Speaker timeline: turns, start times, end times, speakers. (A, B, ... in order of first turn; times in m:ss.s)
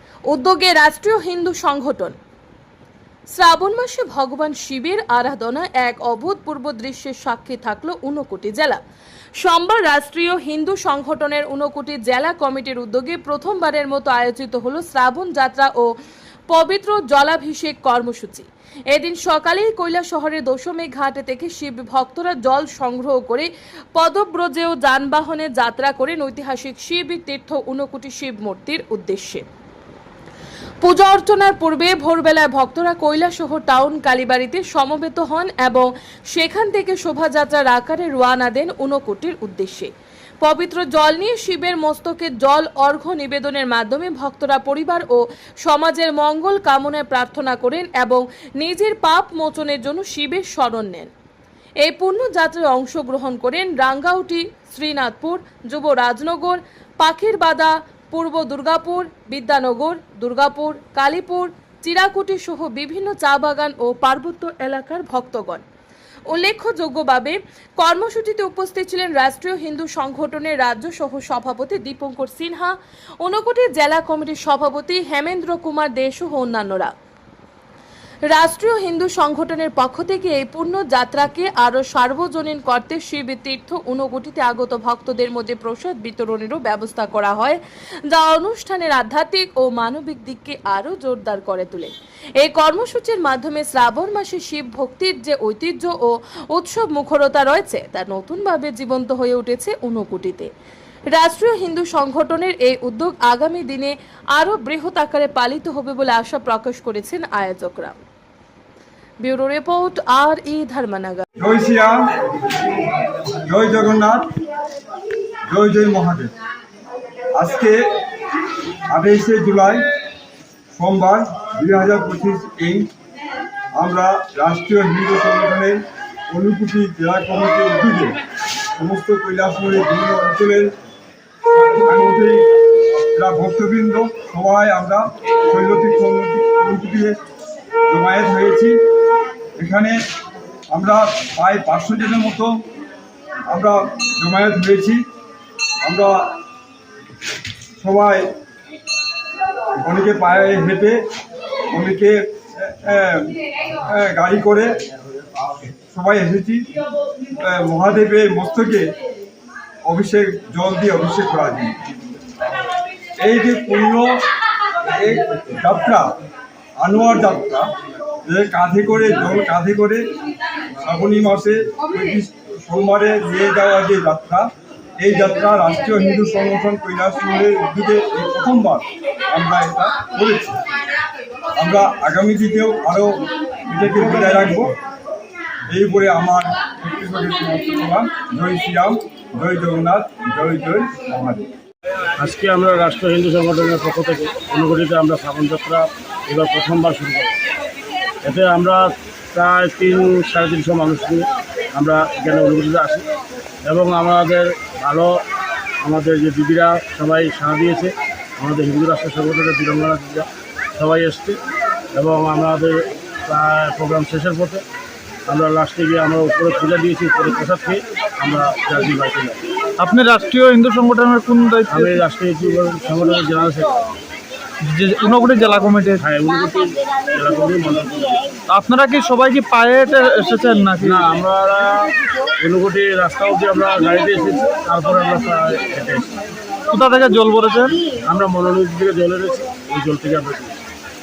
0:00.3-0:02.2 A
0:03.3-0:08.8 A
0:09.4-0:15.9 A
0:16.5-0:29.4 A
0:30.8-0:39.9 A
0:40.4-0:51.1 A
0:51.8-1:05.6 A
1:06.3-1:16.9 A
1:18.3-1:40.5 A
1:41.1-1:48.0 A
1:49.2-1:51.2 A
1:51.4-1:52.1 B
1:53.4-1:54.4 B
1:55.5-1:56.3 B
1:57.3-1:57.9 B
1:58.9-1:59.8 B
2:00.7-2:02.9 B
2:03.8-2:05.8 B
2:06.3-2:08.2 B
2:08.8-2:10.7 B
2:11.5-2:12.5 B
2:13.1-2:17.2 B
2:17.9-2:18.8 B
2:19.6-2:20.0 B
2:20.7-2:22.6 B
2:23.5-2:25.1 B
2:25.8-2:26.4 B
2:27.8-2:28.3 B
2:29.8-2:31.1 B
2:31.7-2:34.8 B
2:35.9-2:36.7 B
2:37.3-2:38.9 B
2:39.8-2:41.8 B
2:43.2-2:44.2 B
2:44.9-2:46.1 B
2:46.8-2:47.7 B
2:48.2-2:50.1 B
2:50.8-3:00.6 B
3:01.6-3:04.7 B
3:05.7-3:11.4 B
3:12.2-3:17.4 C
3:18.2-3:23.1 C
3:23.6-3:25.2 C
3:25.8-3:31.4 C
3:31.9-3:34.6 C
3:35.3-3:39.4 C
3:39.8-3:42.0 D
3:41.7-3:43.9 C
3:44.6-3:46.0 D
3:46.0-3:48.4 C
3:48.5-3:51.1 D
3:50.8-3:56.2 C
3:56.7-3:57.8 D
3:57.9-4:00.6 C